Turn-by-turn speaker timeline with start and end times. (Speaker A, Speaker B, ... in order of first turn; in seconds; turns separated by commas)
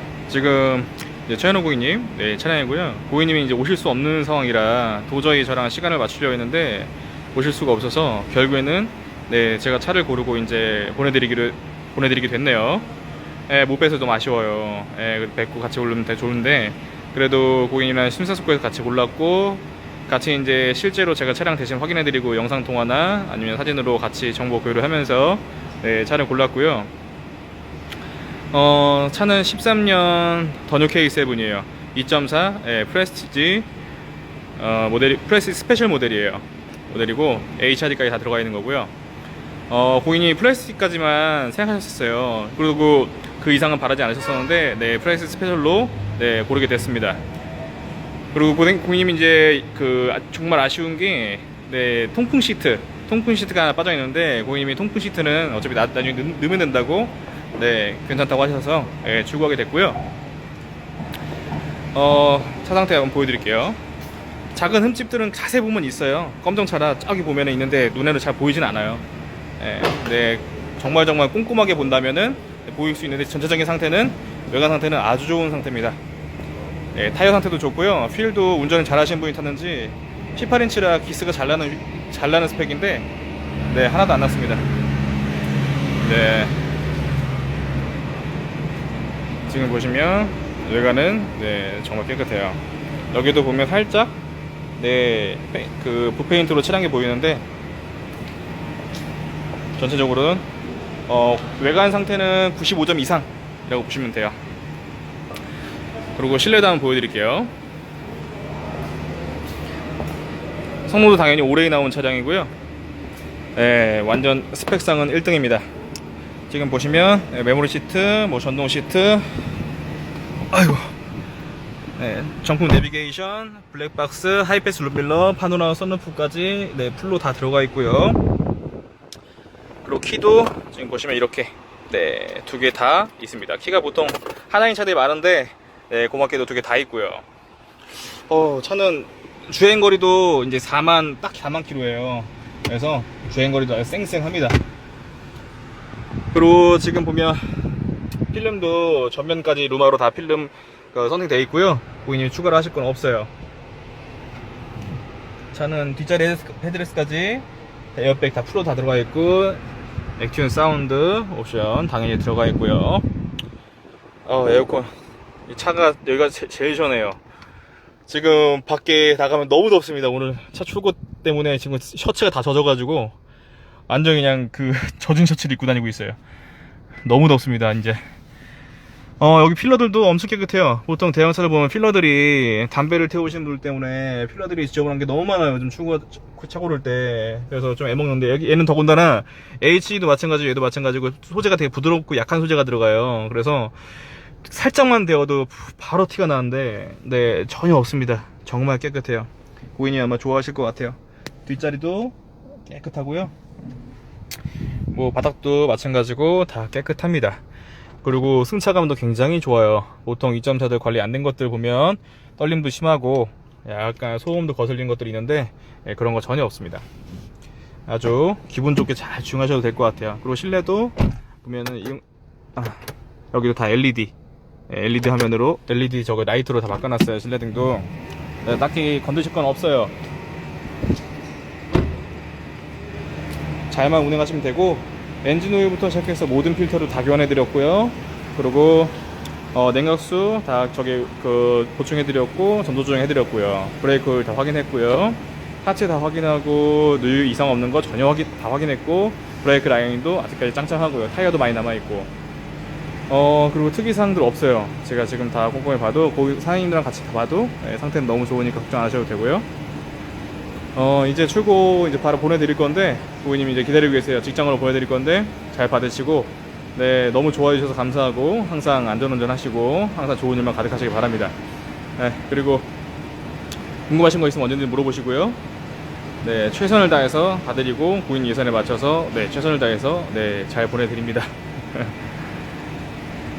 Speaker A: 0.3-12.9, Speaker A: 13.5-26.9, Speaker A: 28.5-33.7, Speaker A: 34.6-38.9, Speaker A: 39.7-47.2, Speaker A: 48.3-60.0, Speaker A: 61.9-63.8, Speaker A: 64.5-69.0, Speaker A: 69.6-76.0, Speaker A: 76.9-83.1, Speaker A: 83.7-84.7, Speaker A: 86.0-86.5, Speaker A: 89.5-94.2, Speaker A: 94.8-97.5, Speaker A: 99.8-100.5, Speaker A: 101.1-104.4, Speaker A: 106.2-107.5, Speaker A: 110.9-112.5, Speaker A: 113.6-115.7, Speaker A: 116.5-119.4, Speaker A: 120.4-120.9, Speaker A: 122.0-128.2, Speaker A: 129.8-137.2, Speaker A: 138.2-144.6, Speaker A: 146.3-147.7, Speaker A: 148.3-153.3, Speaker A: 155.5-159.6, Speaker A: 160.2-163.1, Speaker A: 164.2-164.9, Speaker A: 165.5-167.2, Speaker A: 168.1-173.2, Speaker A: 173.9-176.2, Speaker A: 177.0-178.0, Speaker A: 179.2-193.8, Speaker A: 194.4-203.3, Speaker A: 204.9-207.4, Speaker A: 208.0-216.8, Speaker A: 217.9-222.0, Speaker A: 223.3-224.2, Speaker A: 224.7-227.9, Speaker A: 228.4-229.9, Speaker A: 233.7-239.0, Speaker A: 239.5-252.1, Speaker A: 253.1-259.5, Speaker A: 260.8-271.4, Speaker A: 272.0-272.7, Speaker A: 273.9-275.4, Speaker A: 276.2-282.0